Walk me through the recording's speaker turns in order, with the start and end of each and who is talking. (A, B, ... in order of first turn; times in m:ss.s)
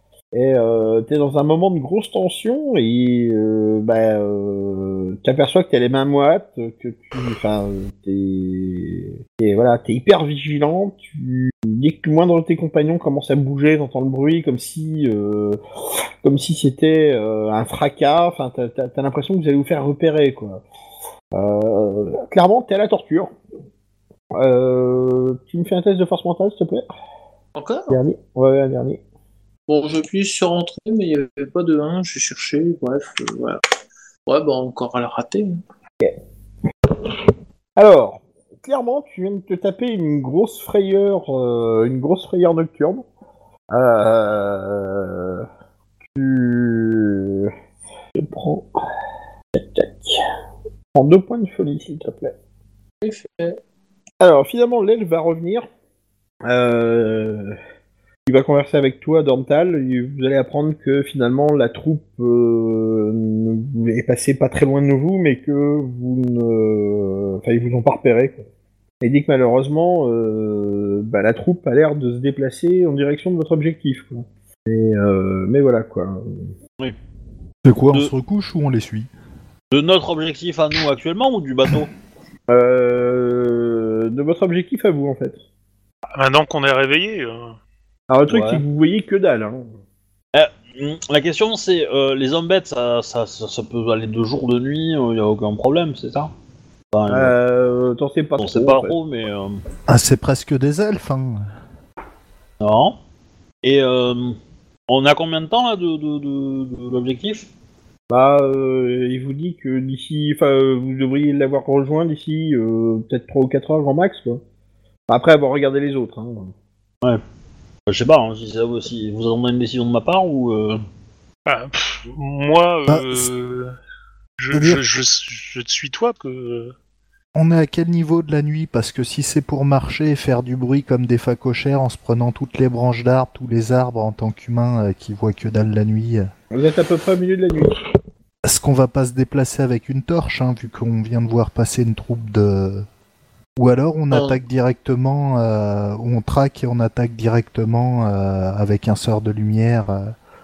0:00.3-0:15.6 A
0:16.2-0:20.6 A
0:21.3-0:23.3 A
0:24.3-0:26.8 A
0:27.6-0:28.0 B
0:27.9-0:29.0 A
0:29.7-0:33.6 B
0:34.3-0:35.6 B
0:37.8-0:43.0 A
0:43.7-0:45.4 A
0:46.1-0:47.5 A
0:48.2-0:48.7 A
0:49.5-0:50.2 A
0:50.9-0:52.3 A
0:53.0-0:53.6 B
0:54.2-0:55.7 A
0:56.4-0:57.6 A
0:58.3-1:08.4 A
1:09.0-1:16.5 A
1:17.6-1:19.1 C
1:19.7-1:21.9 D
1:22.5-1:25.4 A
1:26.1-1:27.5 E
1:28.1-1:29.7 A
1:28.3-1:28.6 D
1:30.3-1:36.3 D
1:36.9-1:37.3 D
1:37.1-1:38.9 A
1:38.4-1:39.6 D
1:39.9-1:41.5 C
1:42.6-1:43.0 D
1:43.6-1:44.4 D
1:44.9-1:47.5 D
1:48.1-1:54.4 A
1:55.1-1:56.5 A
1:57.9-2:00.8 D
2:01.4-2:03.7 E
2:02.9-2:03.3 C
2:04.4-2:06.7 E
2:04.5-2:04.8 C
2:07.3-2:16.3 C
2:16.5-2:17.8 A
2:18.4-2:22.9 C
2:23.6-2:30.1 C
2:24.1-2:24.4 B